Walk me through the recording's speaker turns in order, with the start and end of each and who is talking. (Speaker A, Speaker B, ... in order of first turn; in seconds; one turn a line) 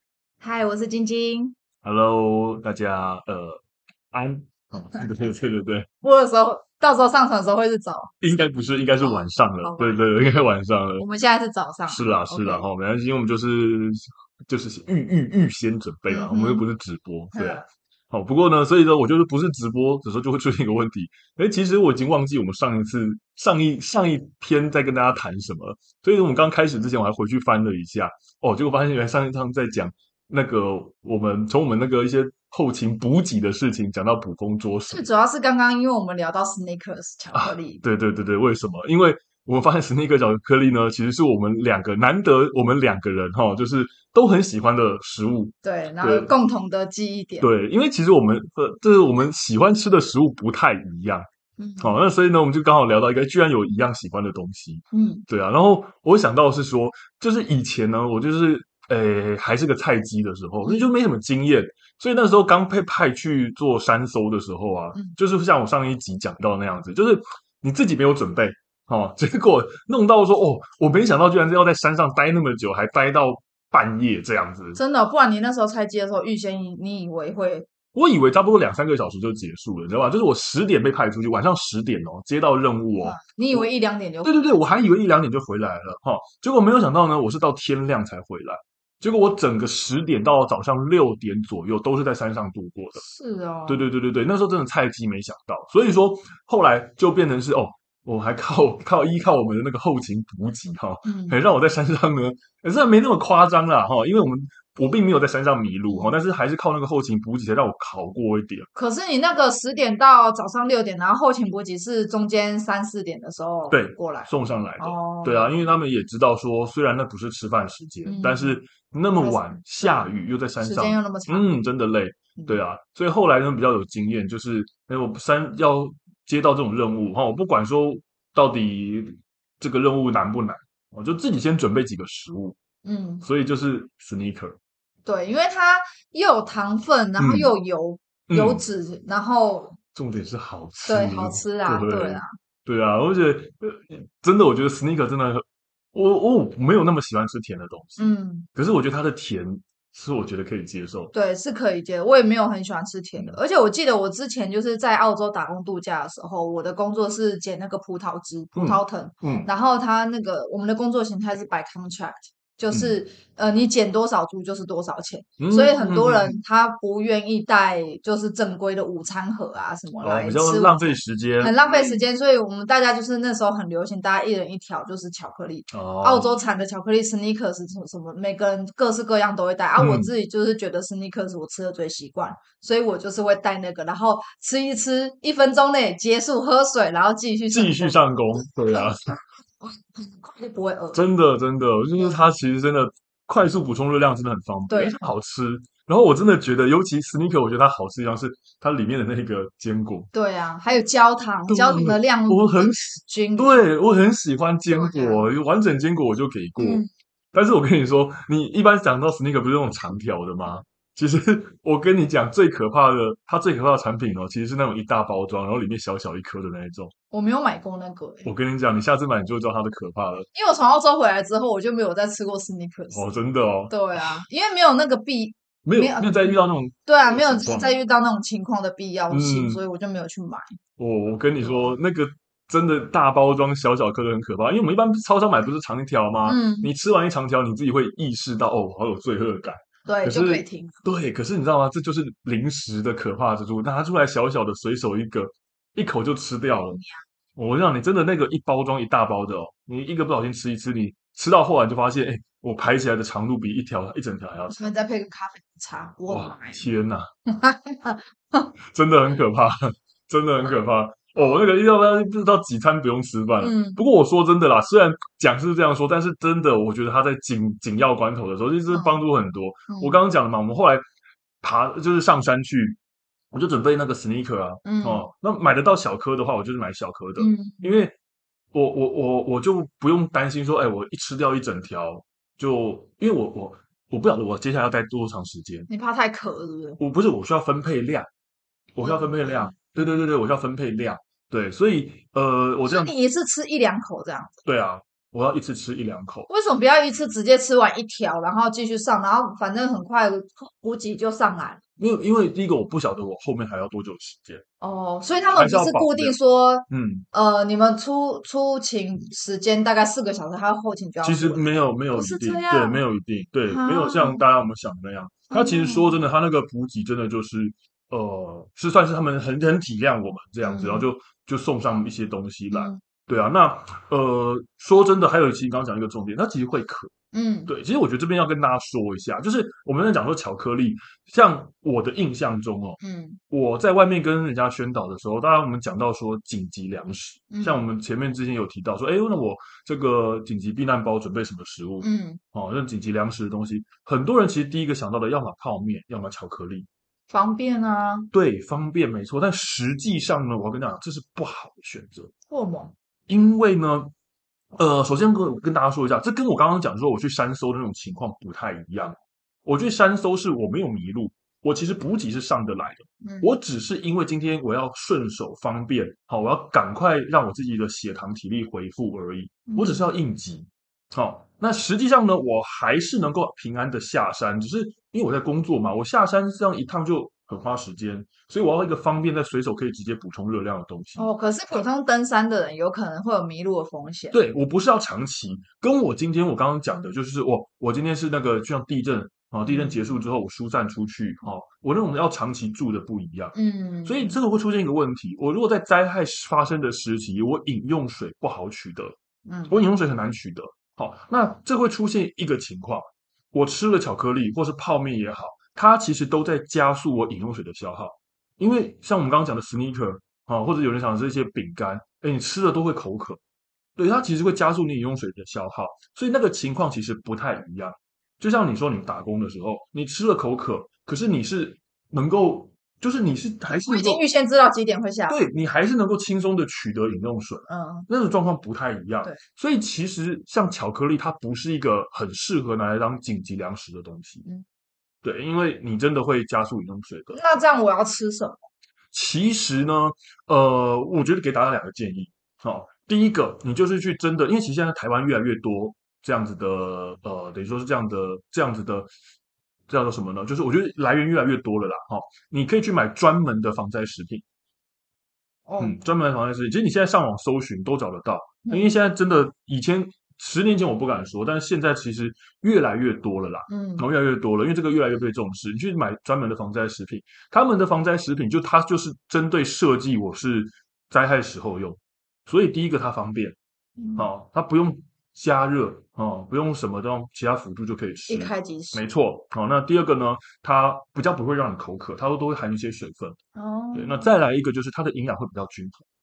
Speaker A: 0.4-1.5
Speaker B: 1.8-3.6
Speaker B: 4.1-5.9
Speaker A: 6.0-8.1
Speaker B: 8.2-11.1
Speaker A: 9.0-12.7
Speaker B: 11.9-35.1
Speaker A: 16.1-16.6
Speaker A: 17.3-17.6
Speaker A: 34.9-37.8
Speaker B: 37.3-46.3
Speaker A: 45.6-47.5
Speaker B: 47.4-51.3
Speaker A: 51.6-52.0
Speaker B: 51.8-74.8
Speaker A: 54.9-55.3
Speaker A: 60.6-60.9
Speaker A: 74.8-77.7
Speaker B: 77.9-83.7
Speaker A: 83.0-84.6
Speaker B: 84.2-93.0
Speaker A: 93.0-93.8
Speaker B: 93.7-108.7
Speaker A: 101.0-101.4
Speaker A: 105.9-106.1
Speaker A: 108.7-115.6
Speaker B: 113.7-132.6
Speaker A: 118.0-118.6
Speaker A: 119.2-120.0
Speaker A: 120.6-121.5
Speaker A: 132.8-133.3
Speaker B: 133.2-134.6
Speaker A: 135.1-139.8
Speaker B: 137.2-137.5
Speaker B: 138.3-138.6
Speaker B: 139.9-151.1
Speaker A: 140.8-142.3
Speaker A: 148.0-148.5
Speaker A: 151.1-188.9
Speaker B: 158.5-159.5
Speaker B: 162.7-163.0
Speaker B: 165.4-166.4
Speaker B: 170.0-172.1
Speaker B: 175.7-176.4
Speaker B: 179.8-180.1
Speaker B: 187.5-189.2
Speaker A: 189.6-191.0
Speaker B: 190.9-200.1
Speaker A: 194.7-195.0
Speaker A: 200.1-203.6
Speaker B: 201.5-216.9
Speaker A: 204.7-205.2
Speaker A: 206.6-206.9
Speaker A: 217.1-218.3
Speaker B: 218.2-220.3
Speaker A: 220.3-223.1
Speaker B: 222.9-224.2
Speaker A: 223.7-230.6
Speaker B: 225.6-227.8
Speaker B: 229.1-229.6
Speaker B: 230.8-246.8
Speaker A: 231.4-231.8
Speaker A: 236.2-236.7
Speaker A: 239.8-240.8
Speaker A: 246.7-247.0
Speaker B: 247.3-254.6
Speaker A: 254.5-256.7
Speaker B: 256.1-257.1
Speaker A: 257.3-258.5
Speaker B: 258.7-270.8
Speaker A: 263.4-263.8
Speaker A: 268.7-269.0
Speaker A: 269.7-270.0
Speaker B: 271.4-272.8
Speaker B: 273.3-277.9
Speaker A: 274.6-275.1
Speaker A: 277.2-277.8
Speaker B: 278.5-285.7
Speaker A: 285.7-286.8
Speaker B: 286.8-288.1
Speaker B: 288.8-292.9
Speaker A: 288.8-289.5
Speaker A: 292.6-294.3
Speaker B: 294.4-296.3
Speaker A: 296.3-301.6
Speaker B: 301.8-304.4
Speaker A: 304.6-312.8
Speaker B: 305.3-306.1
Speaker B: 306.7-307.1
Speaker B: 311.0-326.9
Speaker A: 313.5-314.2
Speaker A: 315.3-316.0
Speaker A: 320.4-320.9
Speaker A: 322.5-322.8
Speaker A: 327.1-327.5
Speaker B: 327.5-346.7
Speaker A: 332.8-333.2
Speaker A: 337.3-337.6
Speaker A: 341.8-342.2
Speaker A: 347.1-348.1
Speaker B: 348.1-352.1
Speaker A: 352.3-352.7
Speaker B: 353.1-353.9
Speaker B: 354.6-381.1
Speaker A: 363.0-363.4
Speaker A: 369.5-369.9
Speaker A: 381.0-384.2
Speaker B: 384.1-398.9
Speaker A: 389.4-389.9
Speaker A: 393.3-394.1
Speaker A: 399.2-399.6
Speaker B: 399.5-413.2
Speaker B: 413.8-424.0
Speaker A: 423.6-425.2
Speaker B: 425.1-434.2
Speaker A: 427.5-427.9
Speaker B: 435.0-437.2
Speaker A: 437.1-438.4
Speaker B: 438.9-448.9
Speaker B: 449.7-454.2
Speaker A: 455.5-455.8
Speaker B: 455.6-473.4
Speaker A: 458.5-458.7
Speaker A: 463.5-463.9
Speaker A: 473.8-474.1
Speaker B: 474.0-483.2
Speaker A: 478.1-478.8
Speaker A: 483.4-484.1
Speaker B: 483.8-485.8